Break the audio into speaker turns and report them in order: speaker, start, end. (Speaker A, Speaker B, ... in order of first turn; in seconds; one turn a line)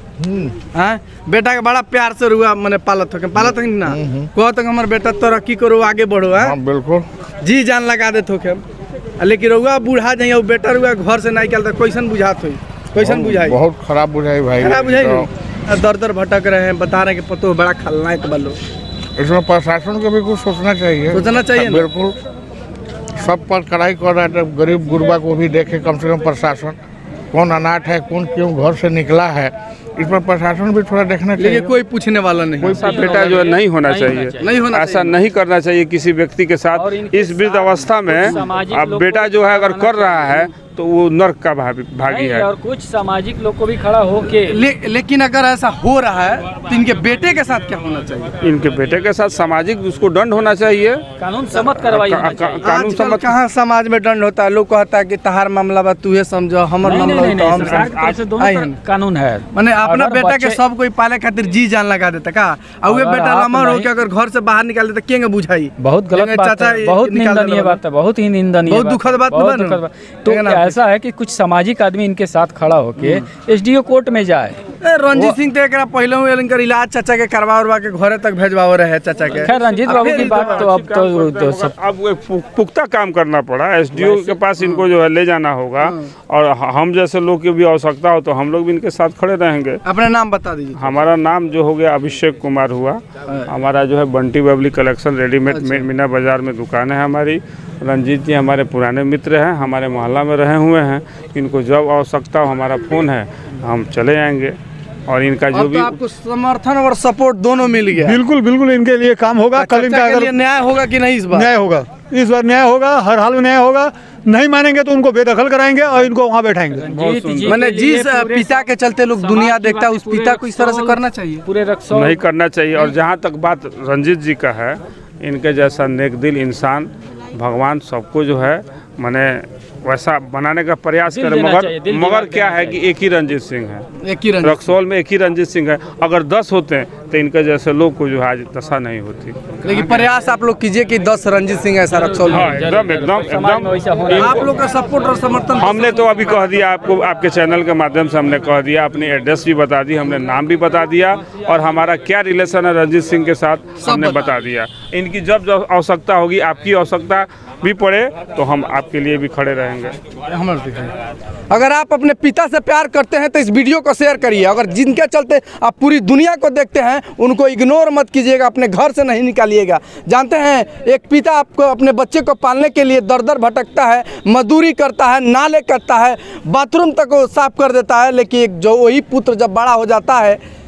Speaker A: 0.2-0.5
Speaker B: 0.7-6.5
Speaker A: 3.5-4.3
Speaker A: 6.3-7.0
Speaker B: 7.4-8.6
Speaker B: 9.2-13.6
Speaker A: 12.9-15.3
Speaker B: 14.6-18.6
Speaker A: 19.2-22.1
Speaker B: 21.1-21.9
Speaker A: 23.2-26.8
Speaker A: 27.3-31.7
Speaker B: 31.4-33.5
Speaker C: 32.8-42.5
Speaker D: 32.9-34.5
Speaker B: 34.4-35.2
Speaker D: 36.8-37.6
Speaker D: 38.3-40.5
Speaker D: 42.1-44.4
Speaker B: 44.4-48.3
Speaker C: 48.4-51.0
Speaker D: 51.2-52.7
Speaker C: 51.6-53.4
Speaker B: 52.6-58.8
Speaker D: 56.8-60.6
Speaker C: 57.6-58.3
Speaker B: 59.5-67.8
Speaker D: 62.9-63.9
Speaker D: 65.8-74.6
Speaker B: 68.7-70.8
Speaker B: 73.0-73.3
Speaker B: 74.8-80.7
Speaker C: 79.2-89.8
Speaker D: 79.5-81.7
Speaker B: 83.9-84.8
Speaker B: 85.8-86.1
Speaker B: 89.8-90.9
Speaker C: 90.8-104.5
Speaker B: 95.5-95.9
Speaker C: 105.1-106.0
Speaker B: 105.5-108.2
Speaker E: 108.0-110.3
Speaker B: 109.5-111.5
Speaker E: 111.3-116.9
Speaker C: 116.8-117.6
Speaker D: 116.8-118.6
Speaker B: 117.4-121.5
Speaker D: 119.2-122.2
Speaker C: 121.9-133.8
Speaker D: 131.1-132.8
Speaker B: 134.0-134.7
Speaker C: 134.4-140.0
Speaker B: 139.6-142.5
Speaker C: 142.3-144.5
Speaker D: 142.3-144.3
Speaker B: 144.1-146.4
Speaker C: 145.5-160.0
Speaker B: 153.8-154.4
Speaker B: 160.3-160.9
Speaker B: 161.5-180.4